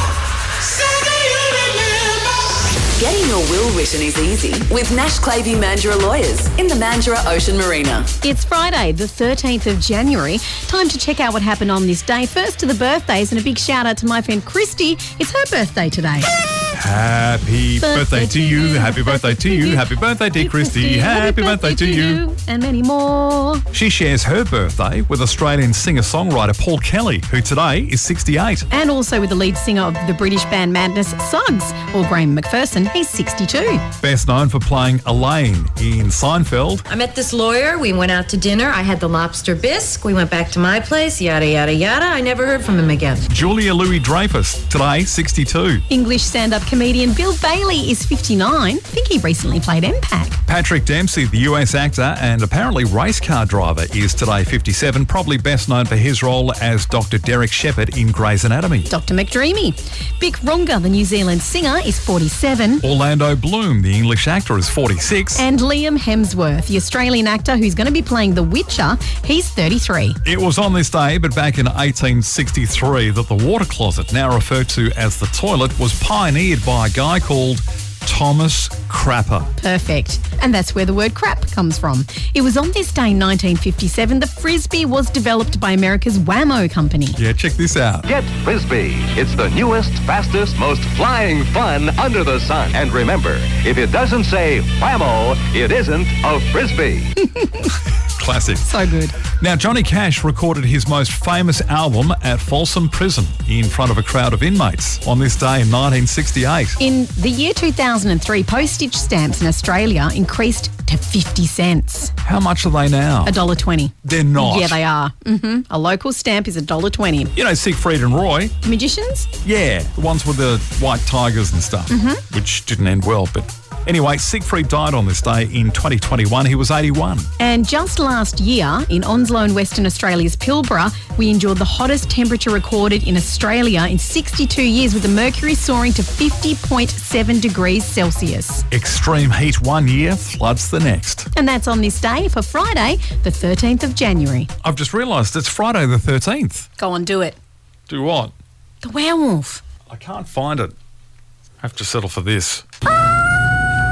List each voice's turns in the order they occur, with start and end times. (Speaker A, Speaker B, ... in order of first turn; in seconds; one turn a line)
Speaker A: 0.9-1.9
Speaker A: 2.8-8.1
Speaker B: 8.2-16.3
Speaker C: 16.7-22.2
Speaker B: 17.8-23.6
Speaker C: 23.7-28.7
Speaker B: 28.7-33.8
Speaker C: 34.0-36.8
Speaker D: 36.9-43.3
Speaker C: 43.3-45.8
Speaker B: 45.9-50.4
Speaker C: 50.5-58.9
Speaker B: 58.9-62.8
Speaker C: 62.8-65.5
Speaker B: 65.4-70.2
Speaker C: 70.2-79.5
Speaker B: 79.6-87.2
Speaker C: 87.2-88.1
Speaker E: 88.1-97.1
Speaker C: 98.2-98.7
Speaker B: 98.6-99.2
Speaker C: 99.4-106.8
Speaker B: 106.8-112.2
Speaker C: 112.2-113.4
Speaker B: 113.2-117.3
Speaker C: 114.0-114.8
Speaker C: 117.4-118.5
Speaker B: 118.6-119.3
Speaker C: 119.4-127.3
Speaker B: 121.9-122.2
Speaker B: 127.4-138.7
Speaker C: 138.7-141.3
Speaker B: 141.3-144.5
Speaker C: 144.6-146.7
Speaker B: 146.8-147.4
Speaker C: 147.9-148.3
Speaker B: 148.8-149.6
Speaker C: 149.9-150.8
Speaker C: 151.6-152.6